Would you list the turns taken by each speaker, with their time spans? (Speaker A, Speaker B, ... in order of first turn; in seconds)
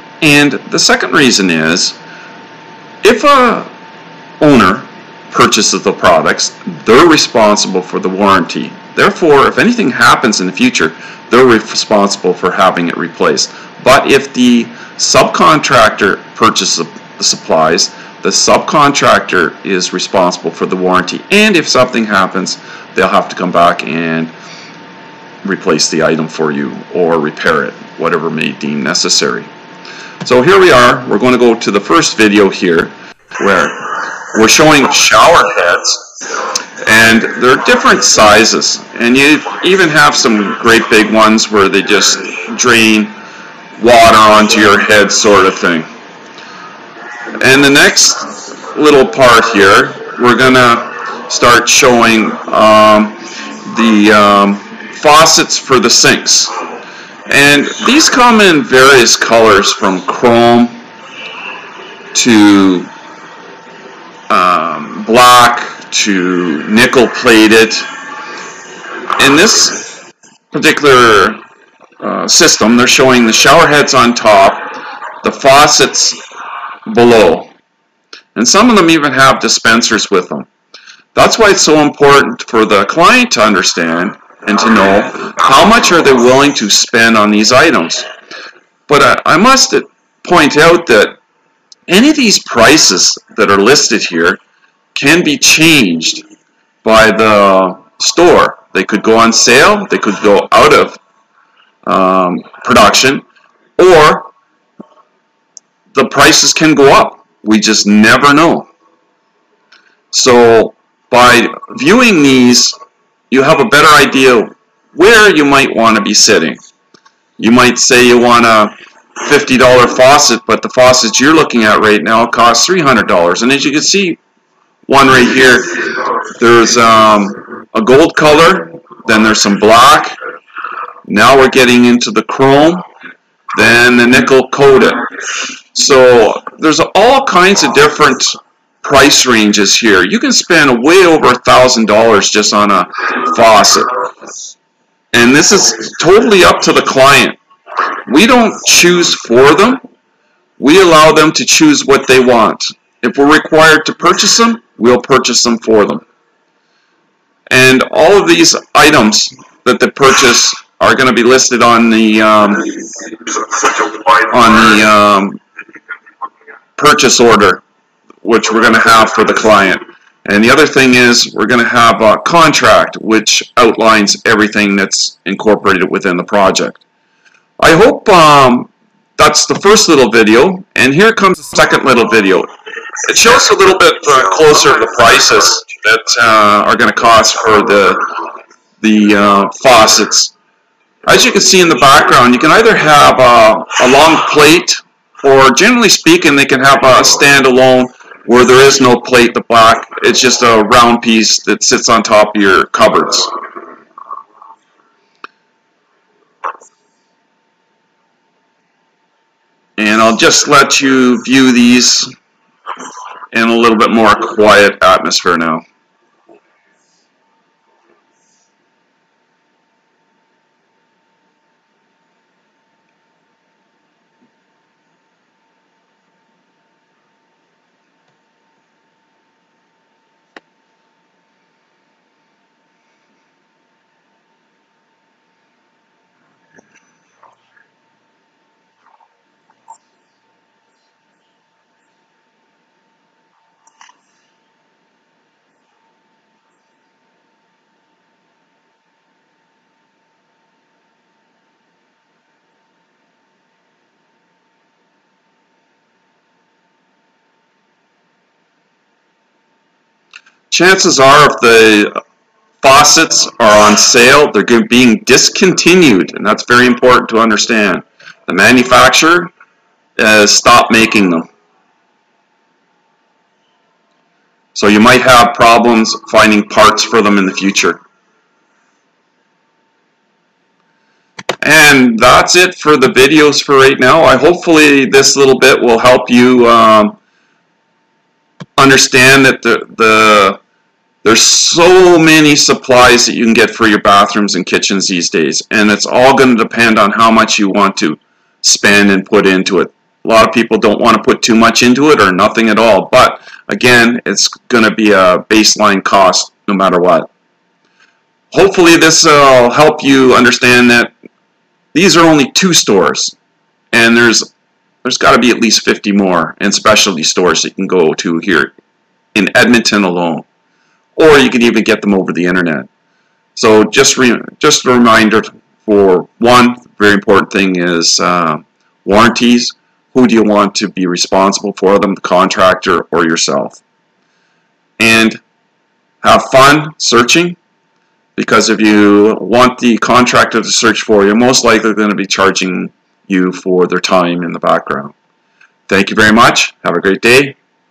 Speaker A: 0.2-2.0, 3.0-3.7, 4.4-24.3, 25.4-29.5, 30.2-36.0, 36.8-43.1, 43.8-45.9, 47.4-56.5, 57.3-60.8, 62.1-62.9, 64.3-67.9, 69.2-69.9, 70.5-71.4, 72.0-76.2, 76.8-77.5, 78.3-80.5, 81.1-88.0, 88.9-91.2, 91.9-94.4, 94.9-96.2, 96.8-101.0, 101.8-103.2, 103.8-104.3, 105.9-108.7, 110.1-112.8, 113.3-116.6, 117.4-124.2, 124.8-130.2, 131.1-132.8, 133.5-135.1, 135.7-144.1, 145.1-147.4, 148.0-149.8, 150.6-156.0, 157.5-162.9, 164.0-165.4, 166.8-167.6, 168.2-176.8, 177.6-182.5, 183.0-188.1, 188.8-190.3, 191.1-203.3, 209.8-212.1, 213.3-215.6, 260.5-262.0, 262.6-269.3, 270.0-271.3, 274.5-277.8, 281.4-287.0, 288.6-290.4, 291.0-307.1, 308.3-310.9, 311.7-313.2, 313.7-314.3, 314.8-318.5, 319.1-320.3, 321.0-322.7, 323.3-333.6, 334.8-335.2, 336.0-337.4, 338.1-344.9, 345.7-347.4